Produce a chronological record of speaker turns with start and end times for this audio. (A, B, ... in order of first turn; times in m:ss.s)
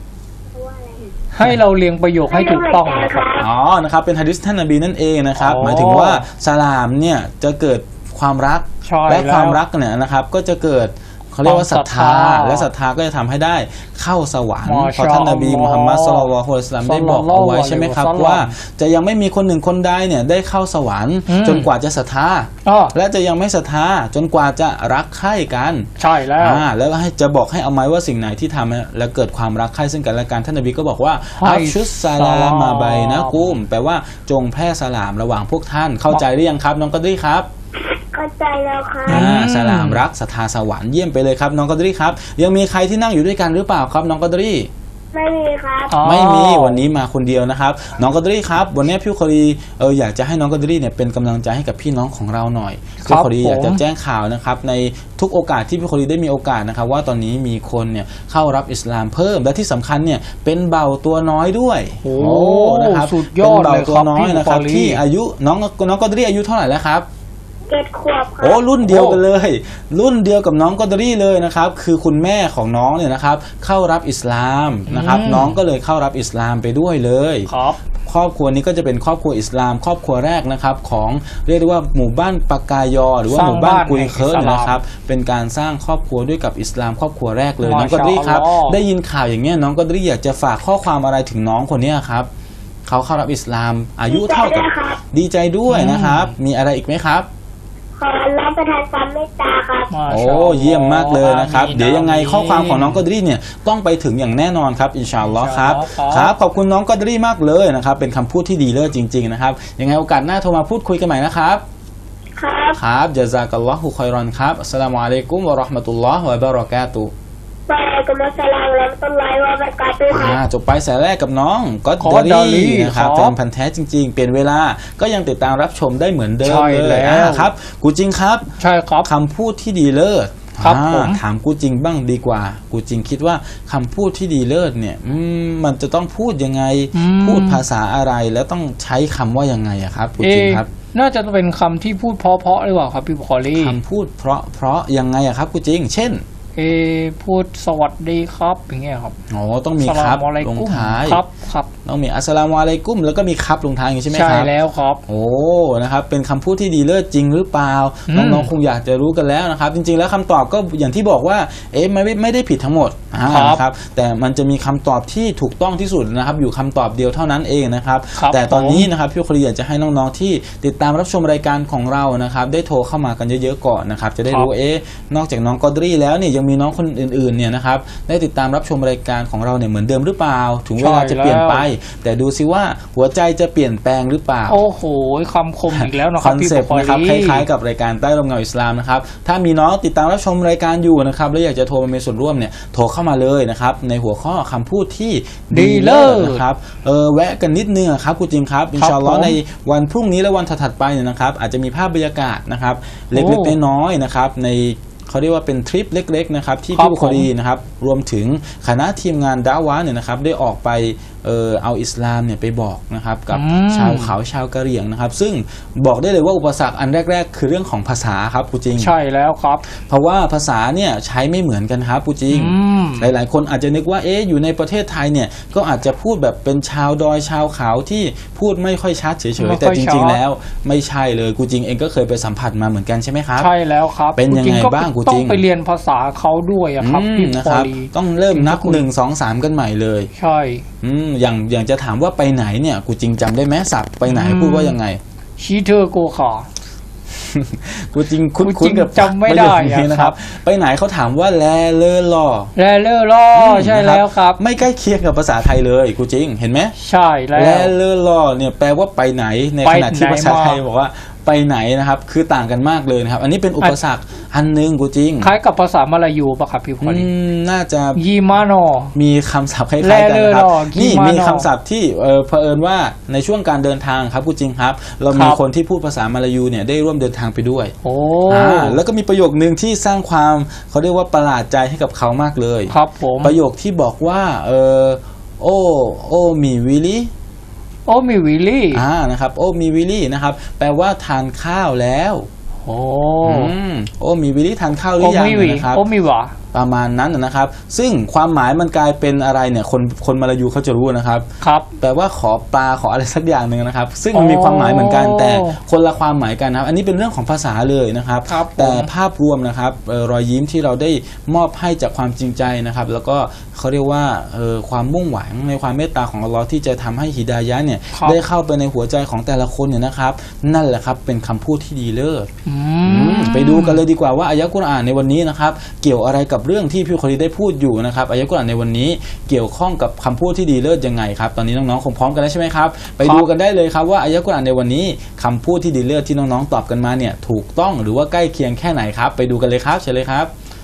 0:00.6-0:01.1 A
0:01.3-0:03.3 B
0:02.3-0:03.5 A
0:03.4-0:37.5 C
0:05.4-0:06.2 B
0:08.8-0:09.6 B
0:11.4-0:12.7 B
0:14.6-0:16.3 B
0:16.8-0:18.5 B
0:21.3-0:21.7 B
0:22.6-0:23.0 B
0:26.0-0:26.6 B
0:31.4-0:33.6 B
0:38.1-0:39.3 A
0:39.1-0:40.0 B
0:39.1-0:44.7 C
0:45.1-0:46.0 A
0:45.9-0:46.8 B
0:46.0-1:07.1 C
0:53.0-0:53.8 B
1:02.0-1:05.0 B
1:07.7-1:08.6 A
1:08.4-1:17.5 C
1:08.8-1:09.2 B
1:14.9-1:15.6 B
1:17.5-1:17.8 B
1:18.0-1:32.3 C
1:23.3-1:24.8 B
1:27.6-1:28.8 B
1:32.9-1:37.3 C
1:34.1-1:35.0 A
1:35.7-1:36.4 B
1:38.0-1:39.9 A
1:39.9-1:43.0 B
1:40.1-1:51.6 C
1:45.2-1:46.3 B
1:52.4-1:52.8 A
1:52.7-1:57.1 C
1:57.7-2:00.4 A
2:00.1-2:20.7 C
2:02.0-2:03.4 B
2:06.4-2:07.5 B
2:08.6-2:09.1 B
2:10.6-2:11.2 B
2:16.9-2:17.6 B
2:20.2-2:23.8 B
2:23.5-2:26.2 C
2:26.6-2:29.2 B
2:29.3-2:31.2 C
2:29.8-2:31.7 B
2:31.8-2:34.5 C
2:34.1-2:35.0 B
2:35.1-3:04.6 C
2:38.1-2:38.5 B
2:43.2-2:43.6 B
2:48.2-2:48.9 B
2:54.3-2:54.5 B
3:00.8-3:01.7 B
3:04.5-3:07.5 B
3:05.7-3:38.9 C
3:15.5-3:16.4 B
3:18.8-3:19.4 B
3:23.1-3:23.6 B
3:26.7-3:27.3 B
3:33.3-3:34.1 B
3:38.7-3:39.7 B
3:39.7-3:53.5 C
3:42.3-3:43.1 B
3:49.4-3:50.2 B
3:53.4-3:58.8 B
3:54.2-3:55.4 C
3:56.8-4:00.1 C
4:00.2-4:00.6 B
4:00.8-4:05.0 C
4:04.1-4:04.8 B
4:05.4-4:06.5 B
4:07.1-4:12.5 C
4:08.4-4:10.2 B
4:12.6-4:14.4 B
4:13.4-4:16.8 C
4:16.8-4:17.7 B
4:17.3-4:25.3 C
4:19.6-4:20.6 B
4:25.2-4:27.1 B
4:26.8-4:28.0 C
4:28.0-4:29.0 B
4:29.0-4:37.7 C
4:29.8-4:31.5 B
4:35.1-4:35.4 B
4:37.8-4:38.8 B
4:38.3-4:47.1 C
4:42.7-4:43.4 B
4:47.9-4:48.8 B
4:48.7-4:52.3 C
4:52.6-4:53.5 B
4:53.2-4:55.9 C
4:55.0-4:56.4 B
4:56.5-5:01.3 C
5:01.4-5:01.7 B
5:01.8-5:22.3 C
5:04.1-5:05.6 B
5:08.3-5:08.9 B
5:17.9-5:18.2 B
5:22.5-5:23.8 B
5:22.8-5:40.3 C
5:33.0-5:33.3 B